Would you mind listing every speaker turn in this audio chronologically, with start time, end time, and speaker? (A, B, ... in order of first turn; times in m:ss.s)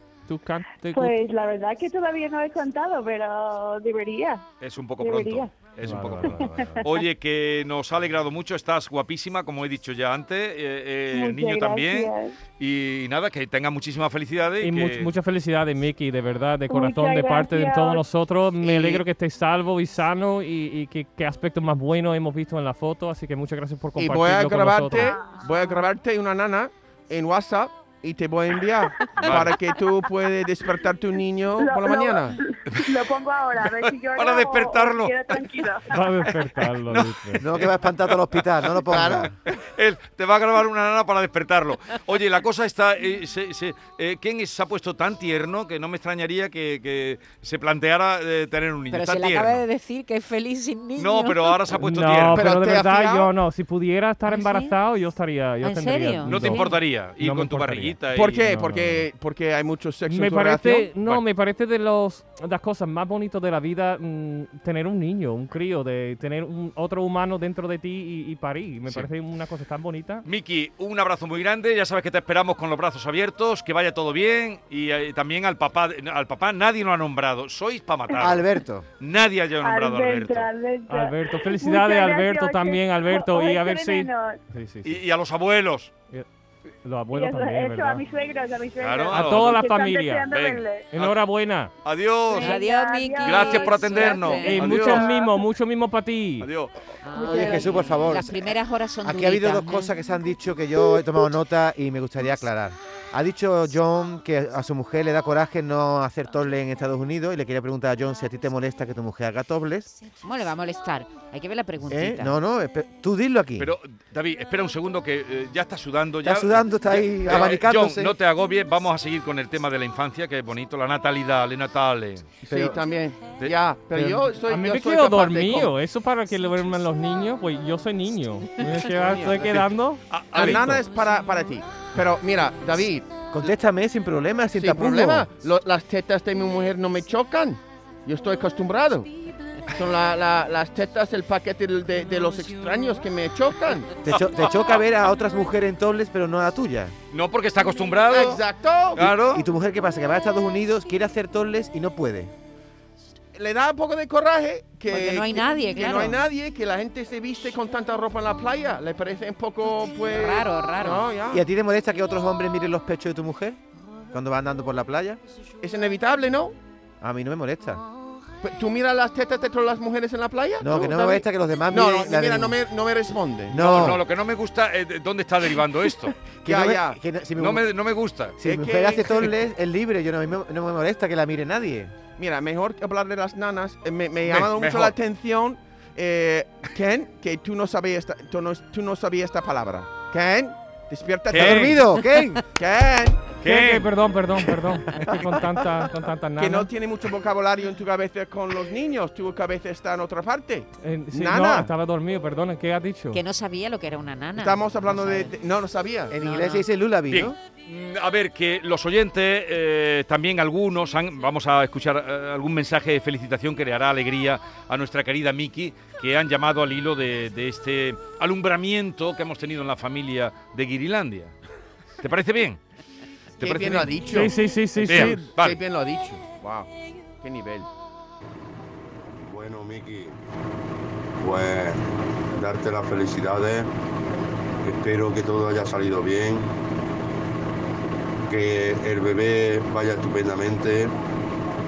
0:00.3-0:01.1 A
0:00.9-0:04.4 B
0:04.6-0:15.1 C
0:05.0-0:05.5 B
0:05.8-0:06.9 A
0:06.3-0:06.9 B
0:11.1-0:12.4 B
0:14.6-0:25.2 A
0:16.7-0:18.0 B
0:18.6-0:19.0 D
0:24.0-0:32.4 D
0:25.0-0:25.5 B
0:29.2-0:29.5 C
0:31.6-0:35.9 B
0:34.1-0:35.7 C
0:35.9-0:37.5 A
0:36.3-0:49.6 C
0:37.4-0:39.3 E
0:38.9-0:39.3 D
0:48.9-0:51.7 F
0:51.0-0:52.5 C
0:51.8-0:59.0 A
0:52.3-0:53.3 D
0:54.2-0:54.8 F
0:55.6-0:56.8 F
0:56.2-0:58.4 C
0:58.1-1:00.9 D
1:00.1-1:10.2 A
1:10.2-1:18.5 C
1:18.2-1:18.8 E
1:19.0-1:20.5 C
1:19.6-1:24.4 B
1:20.9-1:25.0 A
1:24.8-1:25.9 C
1:26.8-1:28.0 A
1:27.1-1:30.9 B
1:28.8-1:29.6 C
1:29.1-1:30.3 A
1:30.3-1:31.1 C
1:30.9-1:31.7 A
1:31.8-1:32.6 C
1:32.3-1:35.0 F
1:32.3-1:35.3 B
1:33.2-1:35.1 C
1:34.4-1:36.5 A
1:36.4-1:36.8 C
1:37.0-1:40.0 F
1:37.1-1:49.9 E
1:50.2-1:52.4 F
1:51.9-1:53.7 E
1:53.6-2:02.3 C
1:56.2-1:58.1 E
2:02.5-2:05.7 D
2:02.5-2:02.8 E
2:03.9-2:04.2 E
2:04.5-2:10.8 A
2:09.0-2:09.6 D
2:09.2-2:10.8 C
2:10.4-2:13.1 D
2:13.3-2:15.3 E
2:14.5-2:19.1 D
2:19.7-2:23.9 D
2:24.0-2:27.0 E
2:24.1-2:24.8 C
2:27.1-2:29.4 C
2:28.1-2:29.1 D
2:29.0-2:32.3 E
2:33.4-2:41.4 D
2:34.9-2:36.2 F
2:40.1-2:41.1 F
2:41.3-2:43.6 E
2:44.1-2:45.2 E
2:45.6-2:46.6 D
2:47.0-2:47.8 E
2:48.4-2:54.0 D
2:50.6-2:52.6 E
2:53.5-2:54.0 E
2:53.6-2:56.2 C
2:56.4-2:57.6 E
2:56.4-2:57.0 D
2:57.4-2:58.4 C
2:58.4-3:01.9 E
2:58.4-2:59.3 D
3:02.2-3:11.8 D
3:04.2-3:05.0 C
3:11.3-3:11.8 C
3:11.3-3:12.4 E
3:12.6-3:13.2 D
3:13.4-3:13.9 C
3:13.4-3:16.7 A
3:16.4-3:21.7 D
3:20.8-3:23.2 A
3:23.1-3:25.4 F
3:24.4-3:26.2 D
3:26.1-3:27.4 E
3:26.1-3:26.6 F
3:27.1-3:41.4 C
3:42.0-3:42.6 C
3:43.4-3:44.2 C
3:43.4-3:47.7 D
3:44.1-3:45.3 A
3:44.8-3:45.6 C
3:49.2-3:50.2 G
3:51.2-3:53.7 G
3:54.6-3:56.5 G
3:58.3-4:01.0 G